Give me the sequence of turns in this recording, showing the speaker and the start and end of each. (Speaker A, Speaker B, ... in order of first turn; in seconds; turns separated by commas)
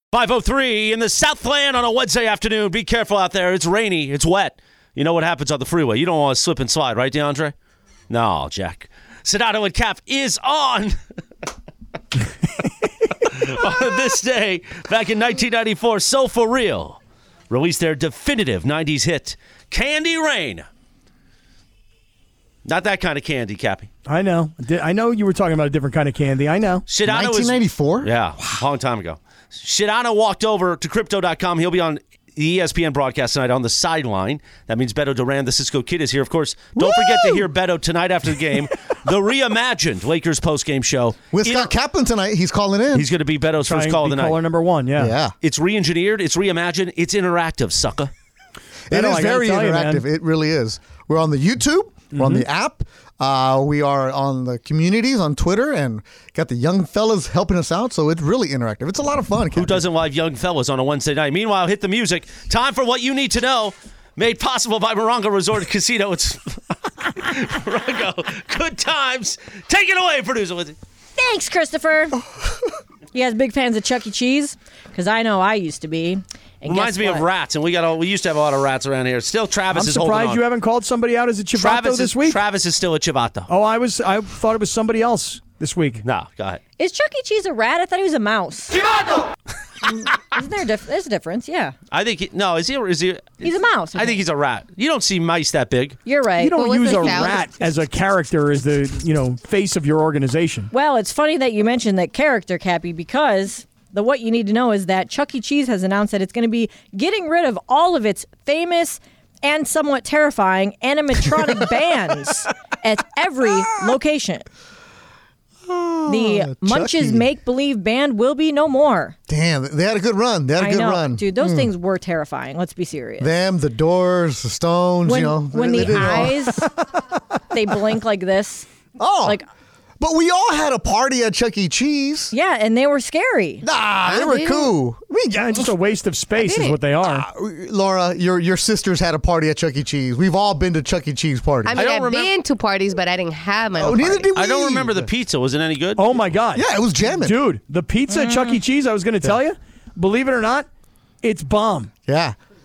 Speaker A: 0.1-7.5, Speaker A: 8.1-11.0, Speaker A: 13.1-17.0, Speaker A: 17.5-20.6, Speaker A: 22.6-23.9, Speaker B: 24.1-26.8, Speaker A: 26.9-41.7, Speaker C: 27.0-28.1, Speaker C: 36.8-37.4, Speaker C: 41.3-43.1, Speaker A: 42.9-44.4, Speaker B: 43.6-45.1, Speaker C: 45.0-45.3, Speaker A: 45.4-48.1, Speaker B: 48.9-50.0, Speaker C: 48.9-59.9, Speaker B: 52.1-52.4, Speaker A: 59.5-70.8, Speaker D: 71.2-72.2, Speaker D: 73.1-77.2, Speaker A: 76.7-80.4, Speaker B: 79.7-82.4, Speaker A: 81.5-83.5, Speaker B: 83.5-86.0, Speaker A: 86.0-86.6, Speaker D: 86.8-88.8, Speaker D: 90.0-91.7, Speaker A: 91.9-96.0, Speaker D: 93.4-94.2, Speaker D: 96.0-97.2, Speaker B: 96.4-100.7, Speaker E: 96.5-97.5, Speaker D: 100.7-114.5, Speaker C: 115.7-117.3, Speaker D: 116.1-119.2, Speaker C: 119.3-121.7, Speaker D: 120.6-123.3, Speaker C: 123.2-126.8, Speaker D: 125.0-126.7, Speaker D: 127.5-128.7, Speaker C: 129.0-129.4, Speaker C: 130.0-132.3, Speaker D: 132.3-133.7, Speaker C: 133.6-135.7, Speaker E: 134.0-134.7, Speaker B: 135.3-137.2, Speaker E: 136.3-136.8, Speaker C: 137.0-141.8, Speaker E: 141.7-144.3, Speaker A: 141.7-142.3, Speaker C: 143.8-145.1, Speaker A: 144.3-146.1, Speaker B: 146.0-150.7, Speaker C: 146.5-147.4, Speaker B: 151.2-151.9, Speaker C: 152.1-152.3